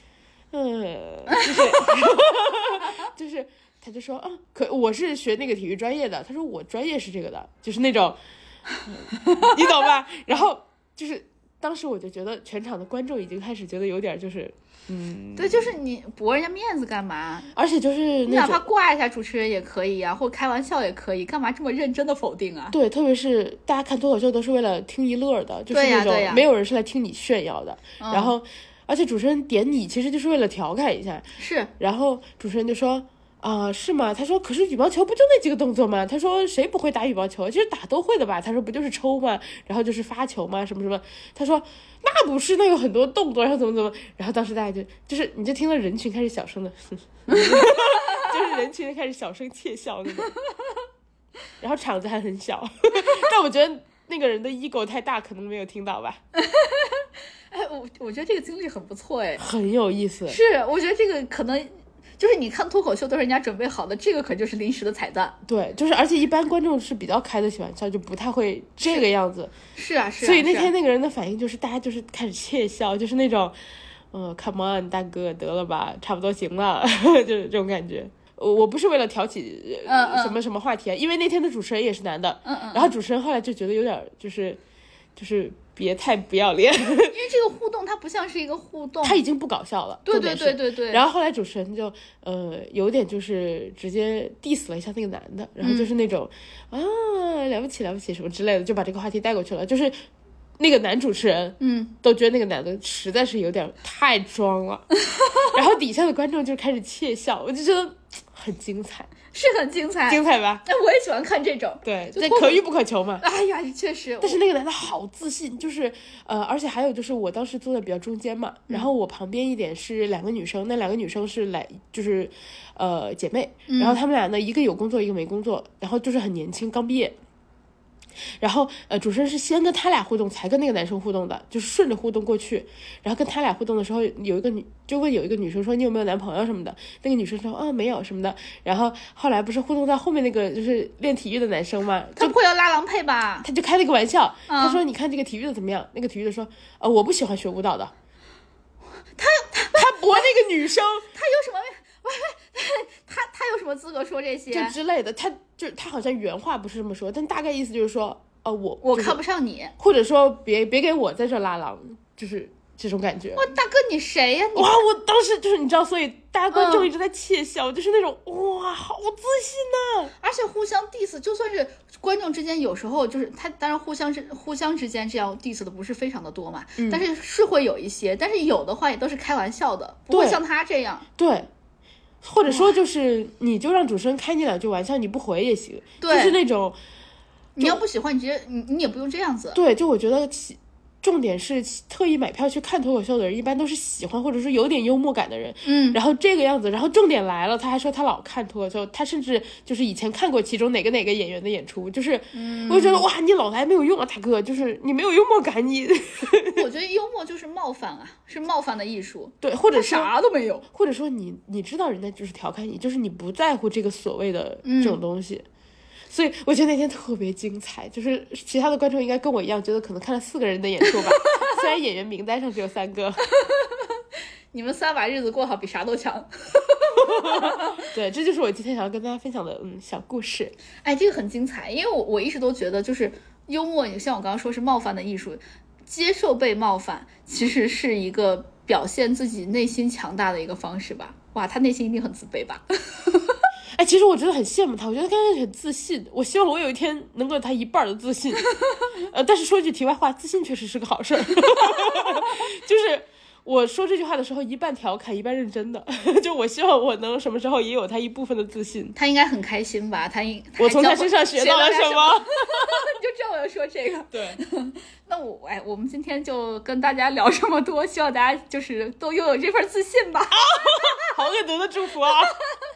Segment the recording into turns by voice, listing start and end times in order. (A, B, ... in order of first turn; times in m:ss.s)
0:00.5-0:08.2 A
0:08.9-0:15.7 A
0:09.2-0:09.5 B
0:15.4-0:17.5 B
0:17.5-0:18.6 A
0:18.3-0:22.8 B
0:22.7-0:31.2 A
0:25.7-0:26.4 B
0:28.0-0:28.3 B
0:31.4-0:31.7 B
0:31.8-0:50.3 A
0:47.3-0:48.3 B
0:51.6-0:56.2 A
0:56.4-0:59.4 B
0:59.4-1:00.4 A
1:00.3-1:05.4 B
1:05.4-1:09.5 A
1:09.8-1:10.7 B
1:10.2-1:13.6 A
1:14.1-1:24.6 A
1:19.8-1:20.4 B
1:22.4-1:22.9 B
1:25.2-1:27.2 A
1:27.0-1:29.2 B
1:29.0-1:40.0 A
1:30.0-1:31.0 B
1:35.6-1:35.9 B
1:40.6-1:44.8 A
1:41.6-1:41.9 B
1:45.0-1:45.5 B
1:45.5-1:49.1 A
1:49.3-1:52.6 B
1:50.1-1:50.6 A
1:51.8-1:53.2 A
1:53.2-1:54.4 B
1:54.2-2:07.2 A
2:03.7-2:04.0 B
2:08.4-2:22.3 A
2:22.2-2:23.5 B
2:23.4-2:27.9 A
2:24.5-2:24.8 B
2:29.2-2:30.3 B
2:29.7-2:31.1 A
2:31.1-2:34.8 B
2:34.5-2:39.2 A
2:38.8-2:39.7 B
2:39.8-2:43.5 A
2:43.4-2:44.8 B
2:44.5-2:50.1 A
2:46.5-2:46.9 B
2:50.2-3:01.0 B
2:56.8-2:57.0 A
3:00.1-3:00.4 A
3:01.2-3:01.5 A
3:02.2-3:06.8 A
3:02.4-3:02.7 B
3:06.0-3:06.4 B
3:07.6-3:07.8 A
3:07.6-3:09.6 B
3:09.5-3:26.6 A
3:15.6-3:16.0 B
3:22.3-3:23.0 B
3:26.5-3:30.6 B
3:29.4-3:30.1 A
3:30.7-3:35.4 A
3:34.6-3:35.0 B
3:36.1-3:43.2 A
3:41.2-3:41.5 B
3:43.3-3:44.0 B
3:44.5-3:47.8 B
3:47.1-3:50.5 A
3:50.8-4:03.4 B
4:03.8-4:08.5 A
4:09.0-4:19.0 A
4:19.0-4:31.0 B
4:20.6-4:22.3 A
4:24.1-4:24.4 A
4:30.5-4:32.3 A